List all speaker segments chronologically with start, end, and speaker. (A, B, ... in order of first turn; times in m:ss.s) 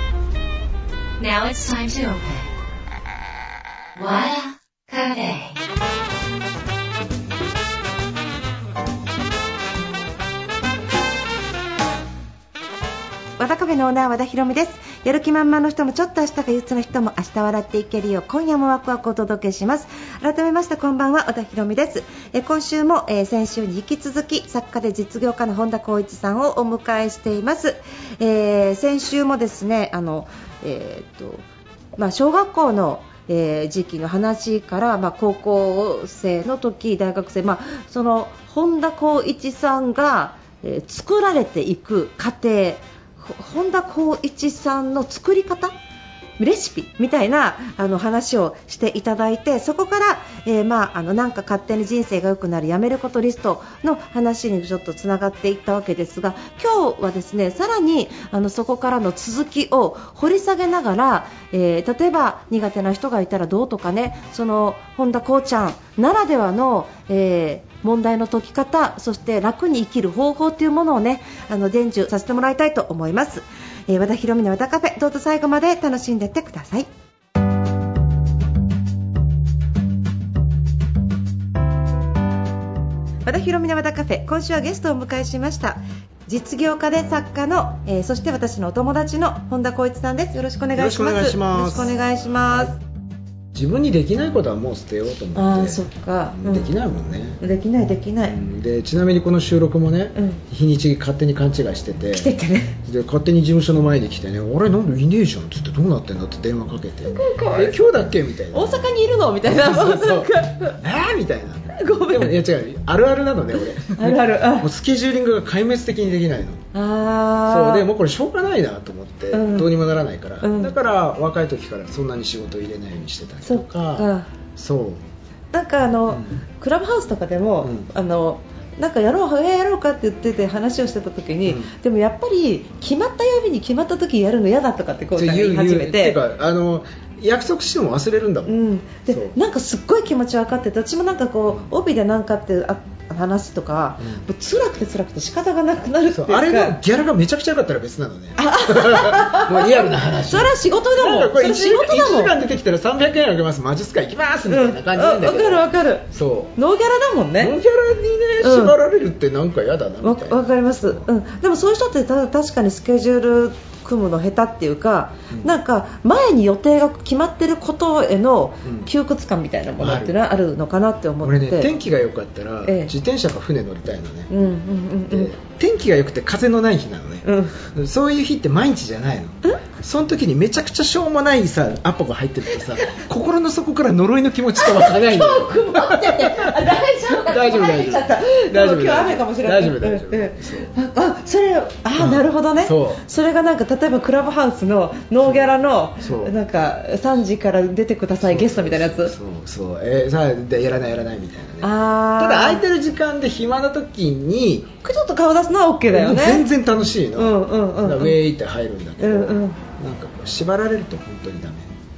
0:01.2-0:02.5 A
0:04.0-0:05.6 A
0:13.4-0:31.4 B
0:32.0-0:45.7 B
0:46.4-1:16.9 B
1:23.2-1:32.8 B
1:30.8-1:32.0 C
1:33.5-1:35.8 C
1:35.4-1:36.7 B
1:36.3-1:37.4 C
1:37.4-1:38.4 B
1:38.2-1:42.4 C
1:40.2-1:40.4 B
1:42.1-1:42.8 B
1:42.9-1:48.9 C
1:47.1-1:47.8 B
1:48.5-1:50.8 B
1:49.4-1:56.6 C
1:51.7-1:52.4 B
1:54.0-1:54.7 B
1:56.7-1:57.9 B
1:57.5-2:05.0 C
1:59.3-1:59.7 B
2:00.4-2:00.7 B
2:03.4-2:04.3 B
2:05.5-2:16.2 B
2:11.5-2:11.7 C
2:15.2-2:18.6 C
2:18.4-2:26.8 B
2:19.1-2:19.4 C
2:26.1-2:36.5 C
2:28.4-2:32.4 B
2:34.5-2:37.6 B
2:37.4-2:41.1 C
2:38.4-2:38.8 B
2:40.0-2:51.7 B
2:49.8-2:50.1 C
2:51.2-2:54.3 C
2:52.6-2:52.9 B
2:54.3-2:55.3 B
2:55.1-3:06.7 C
2:57.2-2:57.6 B
3:04.6-3:19.2 B
3:07.3-3:10.7 C
3:12.0-3:13.0 C
3:15.2-3:15.5 C
3:16.0-3:16.3 C
3:18.2-3:24.8 C
3:21.6-3:22.6 B
3:24.8-3:26.5 B
3:25.9-3:31.7 C
3:27.2-3:28.2 B
3:29.0-3:29.6 B